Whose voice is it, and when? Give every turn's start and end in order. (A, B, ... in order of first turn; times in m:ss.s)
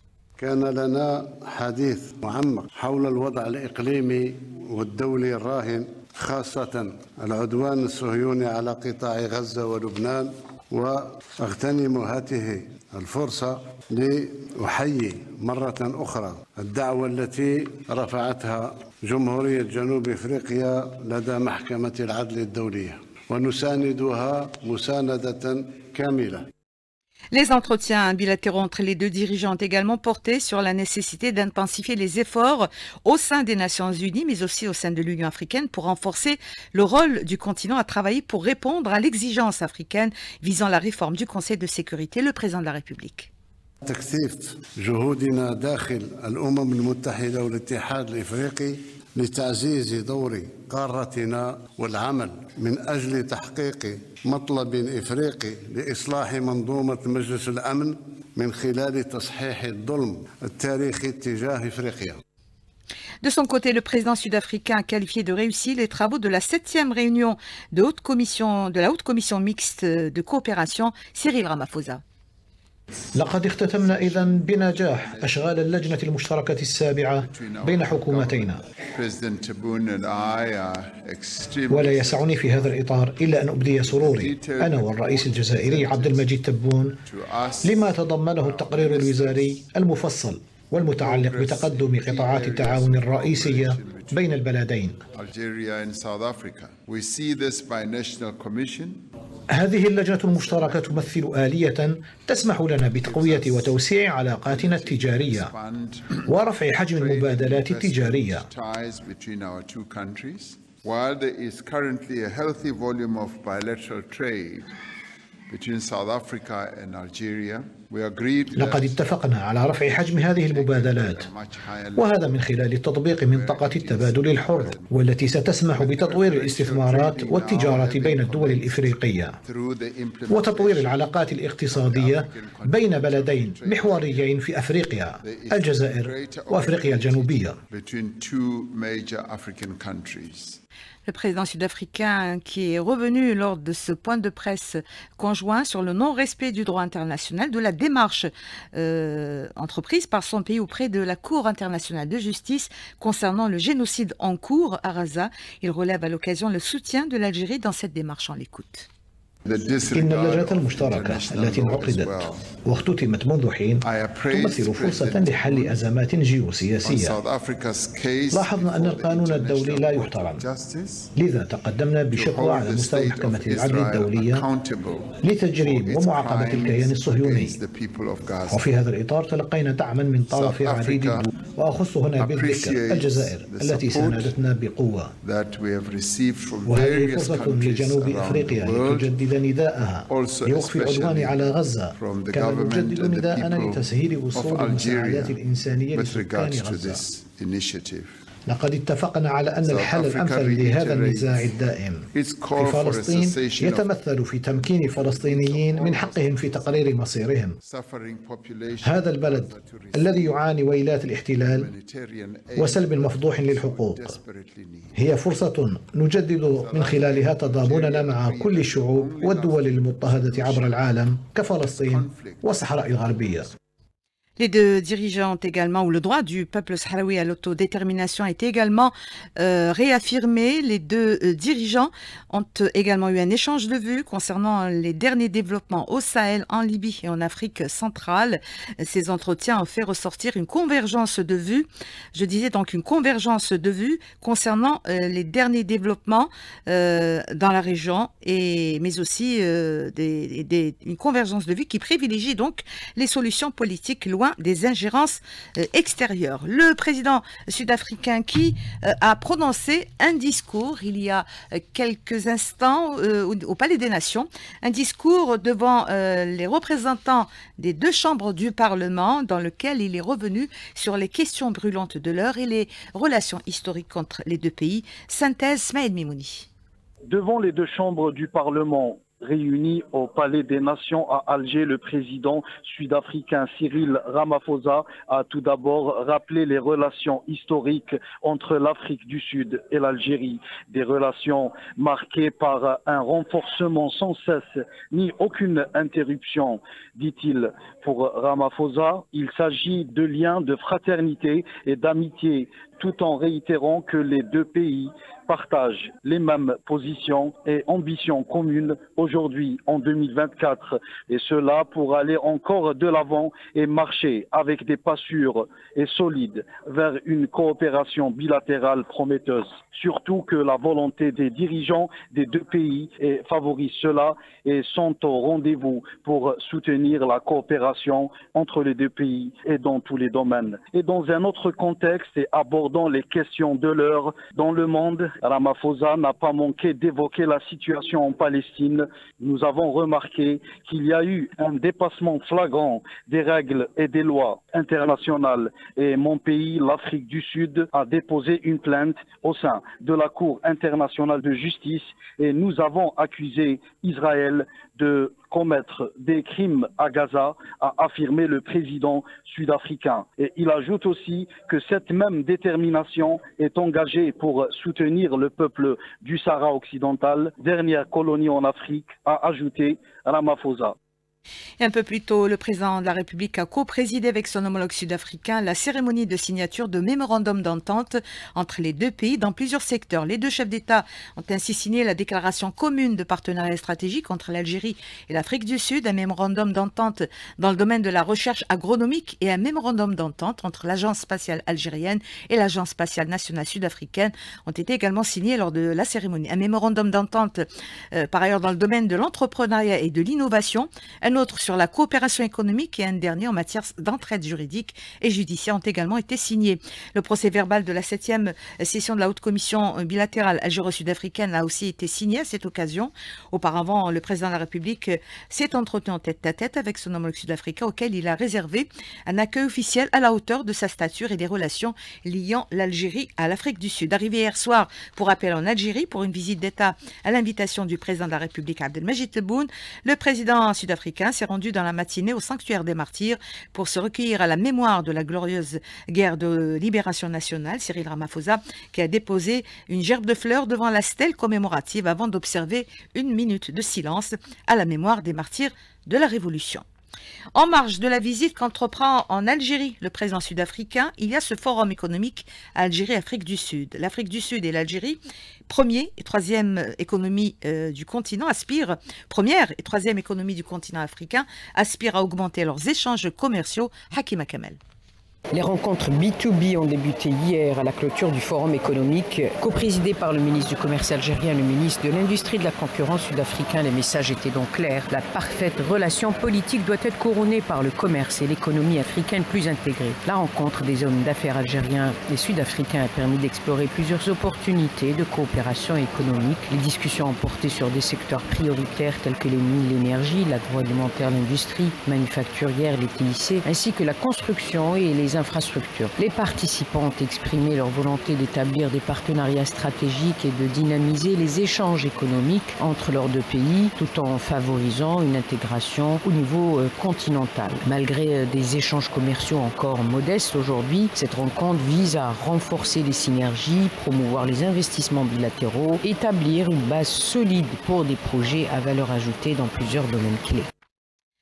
0:00.4-0:26.4 A
0:27.3-0:43.3 B
0:43.8-1:02.2 A
1:03.2-1:12.0 B
1:13.2-1:18.6 C
1:13.5-1:16.1 D
1:17.2-1:26.3 D
1:21.7-1:27.0 C
1:27.0-1:29.6 D
1:27.6-1:35.0 C
1:31.0-1:34.4 D
1:35.1-1:39.0 D
1:39.5-1:45.5 C
1:40.4-1:41.1 D
1:43.0-1:43.7 D
1:44.4-1:46.2 D
1:46.3-1:48.5 C
1:46.9-1:54.7 D
1:55.5-1:59.0 D
1:58.6-2:01.3 C
1:59.8-2:02.3 D
2:02.0-2:09.4 C
2:03.1-2:04.9 D
2:05.6-2:14.3 D
2:10.3-2:17.6 C
2:15.2-2:20.6 D
2:21.0-2:38.9 B
2:39.4-2:42.6 D
2:39.9-2:47.2 C
2:43.8-2:45.9 D
2:46.8-2:51.1 D
2:48.3-2:50.4 C
2:51.2-2:54.4 C
2:52.1-2:58.7 D
2:55.2-2:57.6 C
2:58.5-3:05.1 C
3:00.3-3:01.3 D
3:02.2-3:04.4 D
3:05.2-3:09.1 D
3:06.6-3:17.0 C
3:10.1-3:15.4 D
3:15.9-3:18.1 D
3:18.5-3:27.6 C
3:19.6-3:21.6 D
3:22.1-3:23.9 D
3:24.5-3:26.9 D
3:27.6-3:30.6 D
3:28.8-3:31.7 C
3:31.4-3:35.0 D
3:32.6-3:34.1 C
3:35.0-3:43.5 C
3:36.4-3:41.0 D
3:41.6-3:42.5 D
3:44.4-4:36.5 B
4:37.1-6:10.7 E
6:11.6-7:26.6 B
7:27.3-7:44.6 B
7:45.3-8:40.5 F